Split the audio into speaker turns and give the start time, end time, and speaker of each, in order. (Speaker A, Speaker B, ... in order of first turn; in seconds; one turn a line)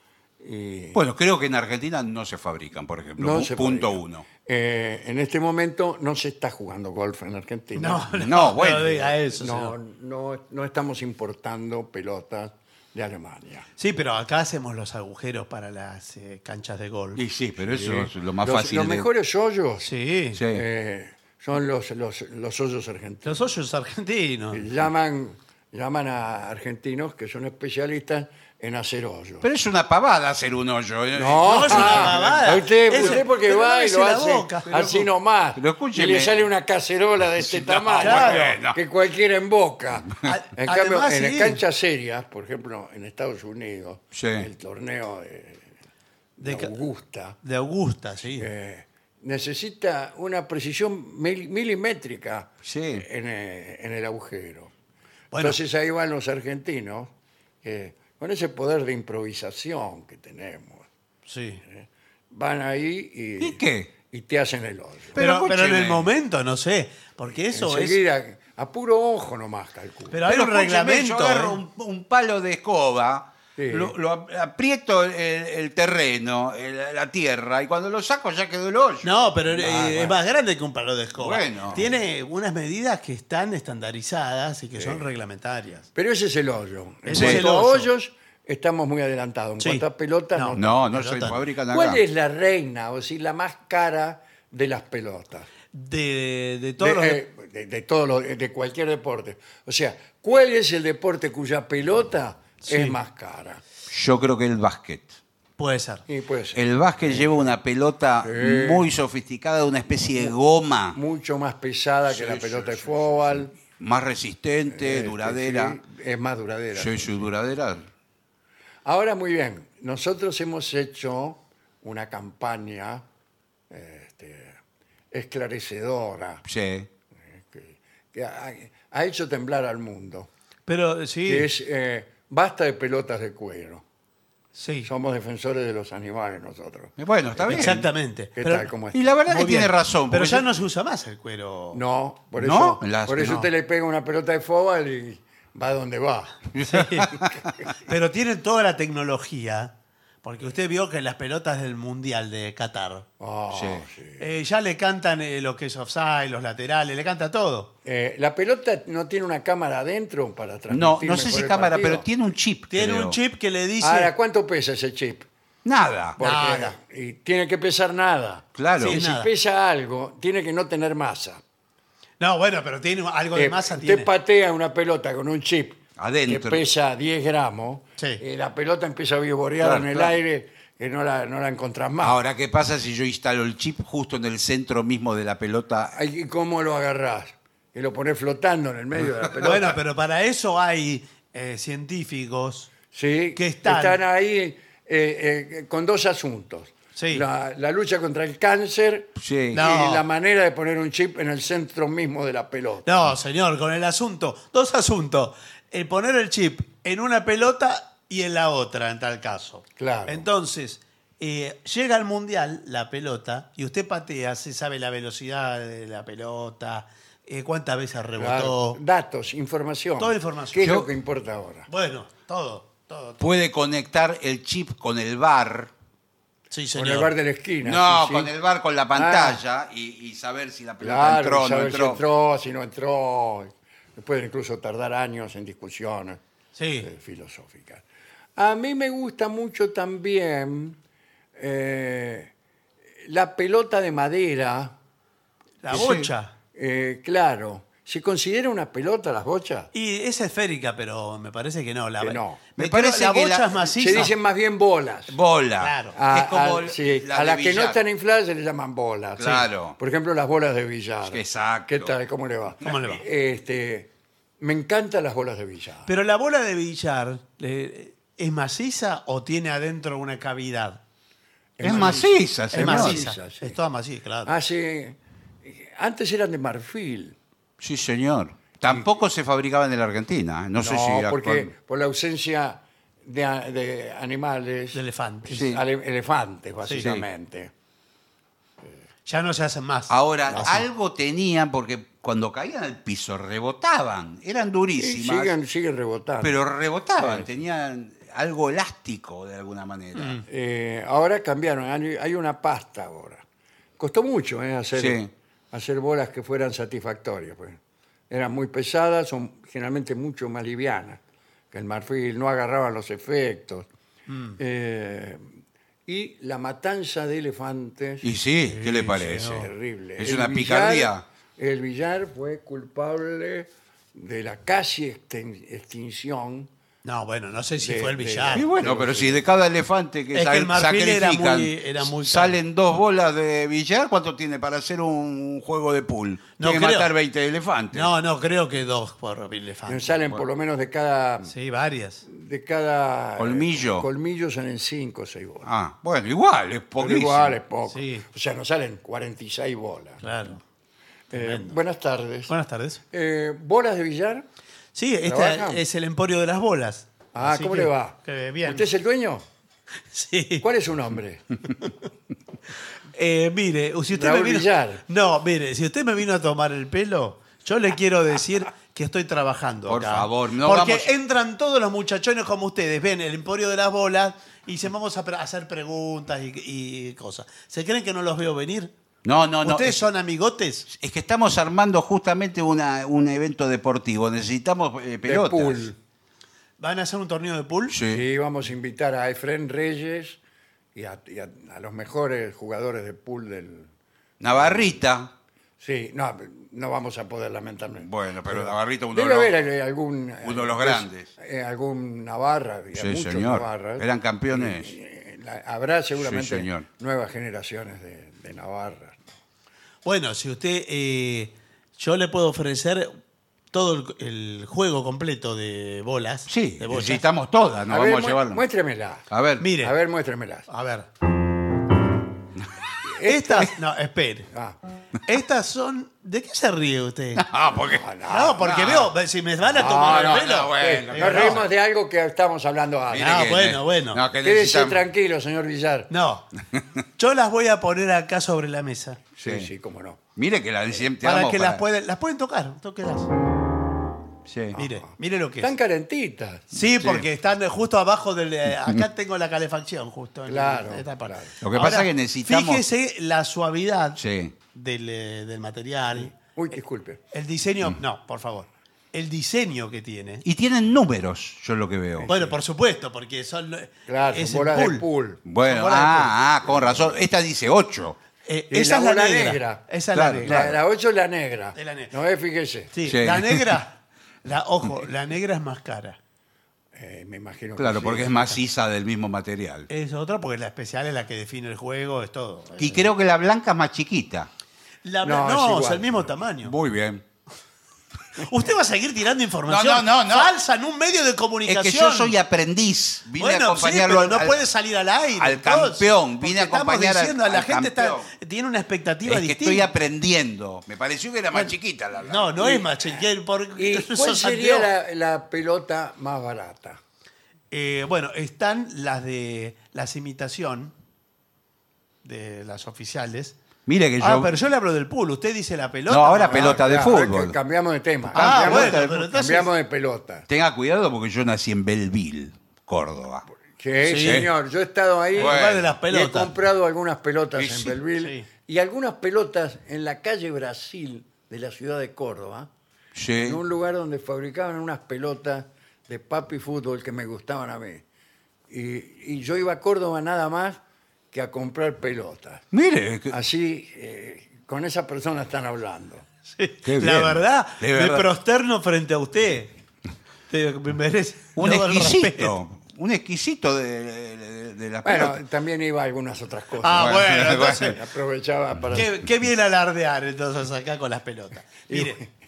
Speaker A: 0.4-1.0
Speaker B: 0.9-4.3
Speaker A: 3.2-8.1
Speaker C: 7.8-9.7
Speaker B: 8.2-9.1
Speaker A: 9.3-13.7
Speaker C: 13.8-17.2
Speaker B: 17.1-19.1
Speaker A: 17.6-19.9
Speaker C: 19.8-20.4
Speaker B: 20.3-20.6
Speaker A: 20.4-23.4
Speaker C: 23.2-24.6
Speaker A: 24.5-29.4
Speaker B: 29.4-33.2
Speaker A: 31.1-45.6
Speaker C: 31.4-35.0
Speaker B: 35.5-36.4
Speaker B: 37.4-38.8
Speaker C: 38.0-38.5
Speaker C: 40.2-41.6
Speaker B: 44.1-44.5
Speaker A: 46.4-47.4
Speaker C: 46.4-46.7
Speaker C: 47.4-48.5
Speaker A: 48.3-54.7
Speaker B: 52.6-53.0
Speaker C: 55.3-55.6
Speaker A: 55.4-57.1
Speaker A: 57.6-60.9
Speaker C: 61.3-61.6
Speaker A: 61.6-65.2
Speaker B: 63.4-63.9
Speaker B: 65.1-66.1
Speaker C: 65.2-68.0
Speaker A: 67.5-70.2
Speaker C: 70.1-71.6
Speaker B: 70.3-80.1
Speaker A: 73.5-74.0
Speaker C: 79.0-85.9
Speaker A: 79.6-80.1
Speaker B: 81.2-81.8
Speaker A: 85.9-90.7
Speaker C: 87.0-87.9
Speaker B: 87.1-87.4
Speaker C: 89.6-89.8
Speaker C: 90.3-91.4
Speaker B: 90.5-92.0
Speaker A: 91.7-95.5
Speaker C: 95.7-97.2
Speaker A: 96.8-103.6
Speaker C: 102.6-103.0
Speaker B: 103.9-105.1
Speaker C: 105.6-106.0
Speaker A: 106.1-107.5
Speaker B: 106.5-111.0
Speaker A: 108.2-108.9
Speaker A: 110.9-113.5
Speaker B: 112.1-115.8
Speaker A: 114.7-117.3
Speaker B: 116.7-117.9
Speaker A: 118.8-123.0
Speaker A: 123.7-124.6
Speaker A: 125.1-126.4
Speaker B: 126.4-126.9
Speaker A: 127.3-130.3
Speaker C: 130.7-131.5
Speaker A: 131.2-133.8
Speaker C: 134.5-134.9
Speaker A: 134.8-137.8
Speaker B: 137.0-137.9
Speaker C: 137.4-138.7
Speaker A: 138.3-139.0
Speaker B: 138.9-140.5
Speaker C: 139.3-141.8
Speaker A: 141.7-146.5
Speaker B: 142.4-143.5
Speaker B: 146.5-147.5
Speaker C: 146.6-147.2
Speaker C: 147.8-153.1
Speaker A: 153.2-154.2
Speaker B: 153.5-153.8
Speaker C: 154.2-157.7
Speaker A: 157.8-162.1
Speaker B: 160.7-163.2
Speaker C: 162.7-164.1
Speaker A: 163.8-165.3
Speaker B: 165.6-166.2
Speaker A: 166.2-171.4
Speaker C: 166.2-166.8
Speaker B: 168.6-169.0
Speaker C: 168.8-169.3
Speaker C: 172.2-174.1
Speaker A: 173.3-182.2
Speaker B: 176.0-176.6
Speaker B: 179.6-180.1
Speaker B: 182.0-185.9
Speaker A: 185.9-189.7
Speaker C: 189.4-192.7
Speaker A: 192.9-203.0
Speaker C: 193.3-194.0
Speaker C: 196.9-197.2
Speaker B: 199.2-199.6
Speaker C: 199.5-200.0
Speaker C: 202.8-218.8
Speaker A: 209.8-210.3
Speaker A: 218.2-221.7
Speaker C: 220.0-220.7
Speaker B: 220.6-220.9
Speaker C: 221.7-223.2
Speaker B: 223.2-225.7
Speaker C: 226.5-227.1
Speaker A: 226.7-228.3
Speaker B: 227.6-232.0
Speaker A: 228.9-229.4
Speaker A: 230.8-236.2
Speaker C: 236.6-236.9
Speaker A: 236.8-237.8
Speaker A: 238.3-240.8
Speaker A: 241.3-242.3
Speaker A: 243.0-244.8
Speaker C: 245.6-246.3
Speaker B: 245.7-246.1
Speaker A: 246.5-249.7
Speaker C: 249.7-254.1
Speaker A: 252.0-252.4
Speaker B: 252.6-254.1
Speaker A: 253.8-255.2
Speaker B: 255.1-257.8
Speaker C: 255.6-256.0
Speaker A: 255.9-265.9
Speaker B: 259.2-259.8
Speaker B: 261.0-261.9
Speaker C: 262.6-263.0
Speaker C: 265.9-270.8
Speaker A: 271.6-273.6
Speaker B: 271.6-273.0
Speaker C: 271.6-274.3
Speaker A: 274.2-277.2
Speaker B: 277.6-281.5
Speaker A: 280.6-287.5
Speaker C: 284.7-285.4
Speaker B: 285.3-285.6
Speaker B: 286.8-287.1
Speaker C: 289.1-290.5
Speaker B: 289.9-295.3
Speaker A: 290.3-290.6
Speaker A: 294.8-296.4
Speaker B: 296.2-300.2
Speaker A: 297.0-297.3
Speaker C: 299.9-300.2
Speaker A: 300.3-303.2
Speaker A: 303.8-305.0
Speaker B: 304.8-305.1
Speaker A: 305.5-311.0
Speaker A: 311.5-313.7
Speaker C: 314.1-314.4
Speaker A: 314.4-315.3
Speaker A: 315.9-318.1
Speaker B: 318.0-321.0
Speaker C: 318.5-319.4
Speaker A: 319.2-326.5
Speaker C: 326.8-328.5
Speaker A: 327.6-329.2
Speaker B: 328.3-337.9
Speaker C: 330.1-332.4
Speaker C: 336.4-336.9
Speaker C: 337.7-339.9
Speaker A: 339.6-341.3
Speaker C: 341.2-342.1
Speaker A: 342.0-345.5
Speaker B: 343.2-343.9
Speaker B: 345.4-347.4
Speaker A: 346.8-350.0
Speaker C: 347.7-348.1
Speaker C: 350.0-350.4
Speaker A: 351.1-352.3
Speaker C: 351.1-351.6
Speaker C: 352.3-352.8
Speaker A: 352.9-354.2
Speaker C: 354.7-358.7
Speaker A: 355.0-355.6
Speaker A: 357.1-359.2
Speaker C: 359.9-360.4
Speaker A: 360.4-361.2
Speaker C: 362.9-378.7
Speaker A: 363.9-364.8
Speaker B: 369.7-370.9
Speaker B: 379.0-379.9
Speaker C: 379.4-380.7
Speaker B: 380.7-385.7
Speaker A: 385.0-385.8
Speaker C: 386.6-387.8
Speaker B: 387.7-388.0
Speaker A: 387.9-390.2
Speaker A: 390.7-393.7
Speaker B: 394.2-395.1
Speaker A: 394.3-394.8
Speaker A: 395.6-409.0
Speaker B: 397.8-399.3
Speaker B: 400.2-401.1
Speaker B: 402.7-404.7
Speaker B: 405.9-406.7
Speaker C: 409.8-413.0
Speaker C: 413.5-417.0
Speaker B: 416.3-418.4
Speaker A: 417.7-420.5
Speaker B: 419.1-419.4
Speaker C: 419.4-419.7
Speaker C: 420.5-420.9
Speaker A: 422.8-423.6
Speaker C: 423.0-424.3
Speaker A: 424.3-424.6
Speaker C: 425.0-427.2
Speaker B: 427.2-427.9
Speaker A: 427.7-428.6
Speaker C: 428.1-431.4
Speaker B: 428.4-428.9
Speaker A: 429.5-433.4
Speaker B: 429.6-431.5
Speaker C: 432.9-434.0
Speaker B: 432.9-434.8
Speaker A: 434.2-435.9
Speaker C: 435.9-436.3
Speaker C: 437.0-439.0
Speaker B: 439.2-439.5
Speaker A: 439.2-440.0
Speaker B: 440.1-441.6
Speaker C: 441.0-443.1
Speaker B: 444.2-444.6
Speaker A: 444.5-446.5
Speaker C: 444.5-445.5
Speaker C: 446.5-454.0
Speaker B: 446.8-447.1
Speaker A: 450.2-451.3
Speaker B: 451.4-452.6
Speaker B: 454.0-454.3
Speaker C: 454.5-456.1
Speaker A: 455.9-457.0
Speaker C: 457.1-460.2
Speaker B: 460.2-462.1
Speaker A: 461.9-462.4
Speaker C: 462.1-464.8
Speaker A: 463.9-465.2
Speaker B: 465.2-468.0
Speaker C: 465.4-466.1
Speaker A: 466.4-466.9
Speaker C: 468.2-470.5
Speaker A: 468.5-469.6
Speaker B: 469.9-470.6
Speaker A: 470.2-472.7
Speaker C: 471.5-471.9
Speaker C: 472.7-476.0
Speaker B: 472.9-473.5
Speaker A: 476.7-478.3
Speaker B: 477.6-479.7
Speaker C: 479.7-482.9
Speaker B: 482.6-484.3
Speaker C: 484.8-486.5
Speaker A: 485.0-486.0
Speaker B: 486.4-487.0
Speaker C: 488.1-492.1
Speaker B: 489.5-490.3
Speaker B: 491.4-494.4
Speaker C: 493.2-499.7
Speaker B: 495.2-498.1
Speaker B: 499.1-502.6
Speaker C: 501.3-504.7
Speaker A: 503.6-506.8
Speaker C: 507.5-510.7
Speaker C: 512.0-513.4
Speaker B: 513.6-514.3
Speaker C: 514.0-516.6
Speaker B: 515.9-517.4
Speaker A: 516.3-520.2
Speaker B: 518.1-519.1
Speaker C: 518.1-519.5
Speaker B: 520.3-523.2
Speaker A: 523.5-532.5
Speaker C: 523.8-524.2
Speaker B: 524.0-524.3
Speaker C: 525.1-526.3
Speaker B: 525.2-525.7
Speaker B: 527.4-527.8
Speaker C: 528.0-528.3
Speaker B: 532.9-533.4
Speaker A: 533.1-537.8
Speaker A: 538.5-540.6
Speaker A: 541.1-542.4
Speaker B: 542.5-543.1
Speaker A: 543.1-546.0
Speaker C: 546.3-549.6
Speaker B: 546.6-548.1
Speaker C: 550.3-552.4
Speaker B: 551.4-555.2
Speaker A: 554.8-558.9
Speaker C: 556.6-557.8
Speaker B: 556.7-557.8
Speaker C: 558.7-562.0
Speaker A: 561.7-562.1